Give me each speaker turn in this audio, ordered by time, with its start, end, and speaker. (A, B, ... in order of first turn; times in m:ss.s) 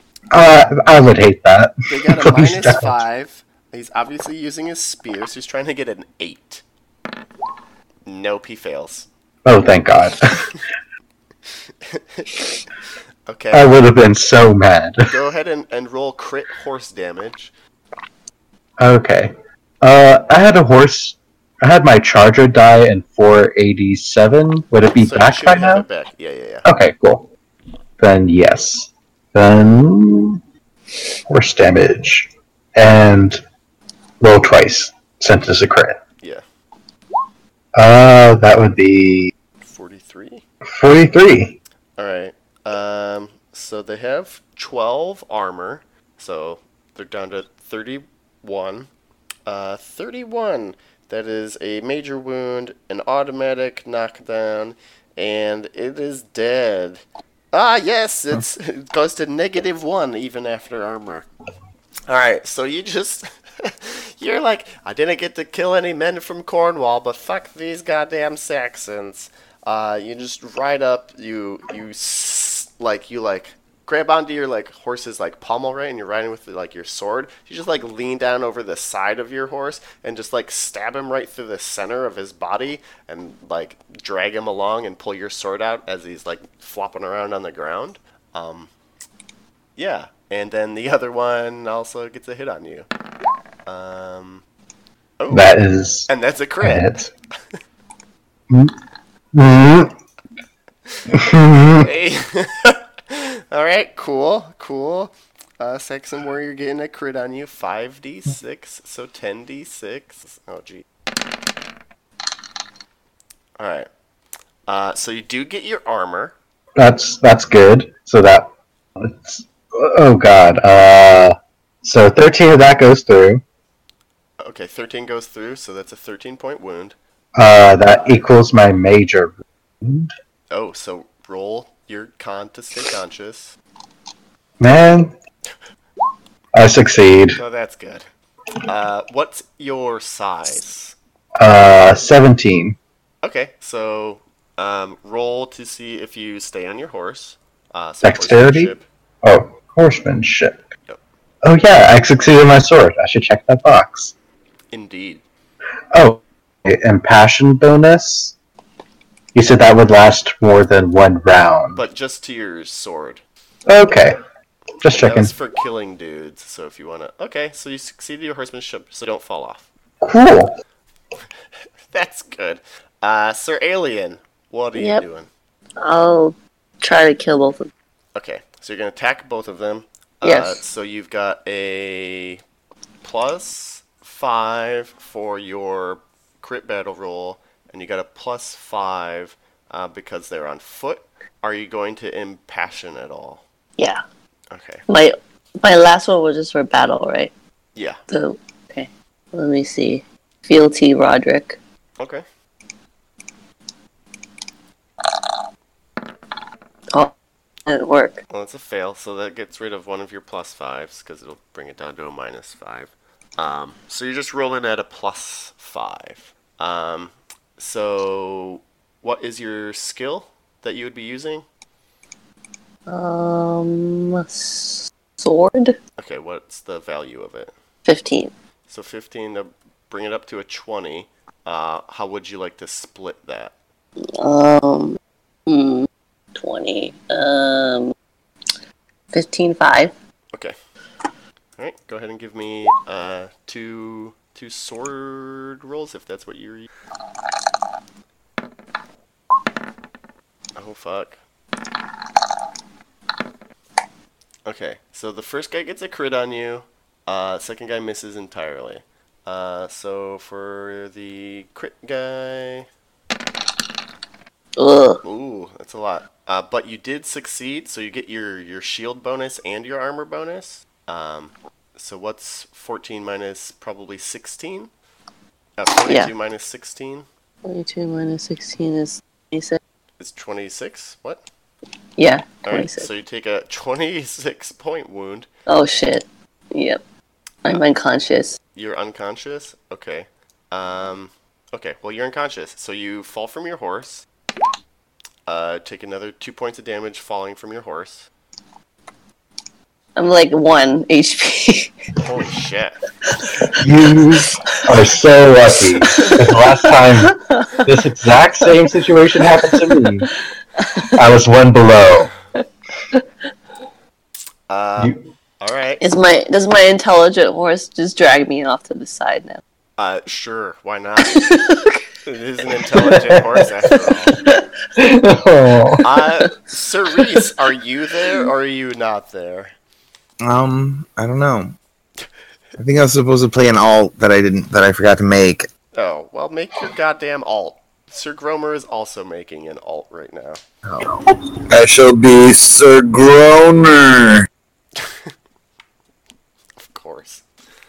0:00.3-0:03.0 A
0:01.9-0:06.6 B
0:08.0-0:09.1 B
0:09.4-0:10.6 A
0:11.8-0:12.4 B
0:13.3-0:13.7 B
0:13.5-0:15.1 A
0:15.0-0:17.5 B
0:18.8-0:25.8 A
0:25.0-0:26.6 B
0:26.6-0:27.3 A
0:28.0-0:30.4 A
0:31.3-0:33.4 A
0:34.2-0:36.0 A
0:37.8-0:39.3 A
0:39.6-0:40.4 B
0:40.7-0:41.6 A
0:42.0-0:48.9 B
0:49.4-1:01.3 B
1:02.1-1:28.7 B
1:29.8-1:32.9 B
1:33.6-1:34.4 B
1:35.2-1:35.6 B
1:35.3-1:36.1 A
1:36.1-1:36.9 B
1:36.6-1:37.1 A
1:39.3-1:39.9 A
1:41.0-1:50.8 B
1:41.1-1:41.9 A
1:53.6-1:53.9 B
1:54.7-1:56.4 B
1:56.8-2:03.4 A
2:04.4-2:07.0 B
2:07.4-2:10.1 A
2:10.5-2:13.6 B
2:14.6-2:15.1 A
2:16.5-2:17.4 A
2:17.4-2:18.1 B
2:18.6-2:21.0 B
2:21.4-2:22.8 A
2:23.2-2:28.9 B
2:28.0-2:30.6 A
2:31.4-2:34.1 A
2:34.7-2:35.2 B
2:35.9-2:38.3 A
2:39.3-2:41.8 A
2:41.7-2:43.2 B
2:43.7-2:44.2 A
2:44.8-2:45.3 A
2:44.9-2:49.7 B
2:50.0-2:50.5 A
2:51.9-2:55.3 B
2:54.7-2:55.0 C
2:55.8-2:57.7 C
2:58.1-3:02.4 B
3:00.2-3:00.6 C
3:03.0-3:13.4 B
3:14.5-3:14.8 B
3:14.9-3:17.3 C
3:17.8-3:18.0 B
3:18.1-3:21.6 C
3:22.0-3:22.2 B
3:27.6-3:28.2 C
3:28.3-3:41.4 B
3:42.9-3:45.8 C
3:46.0-3:47.5 B
3:47.8-3:48.3 C
3:48.7-3:53.5 B
3:54.2-3:57.9 C
3:59.1-3:59.9 C
4:01.6-4:06.7 B
4:10.6-4:11.2 B
4:14.4-4:22.7 B
4:24.6-4:25.0 C
4:25.0-4:34.7 B
4:35.6-4:37.0 B
4:37.4-4:39.6 C
4:40.0-4:41.2 B
4:42.0-4:42.9 C
4:42.4-4:45.3 B
4:45.5-4:46.8 C
4:47.4-4:48.4 C
4:48.5-4:54.0 B
4:55.2-4:58.1 B
5:00.0-5:01.7 C
5:02.0-5:02.8 B
5:03.2-5:03.6 C
5:03.6-5:10.1 A
5:05.8-5:07.6 C
5:09.2-5:09.9 C
5:10.6-5:11.0 C
5:10.9-5:12.1 A
5:14.5-5:15.8 B
5:15.8-5:19.4 C
5:19.8-5:21.3 B
5:21.1-5:21.8 C
5:22.0-5:24.2 B
5:24.8-5:25.8 A
5:25.8-5:29.5 B
5:30.2-5:31.6 D
5:32.6-5:35.5 D
5:35.7-5:40.4 B
5:40.6-5:41.0 D
5:41.5-5:44.3 E
5:44.8-5:45.1 B
5:46.6-5:47.2 B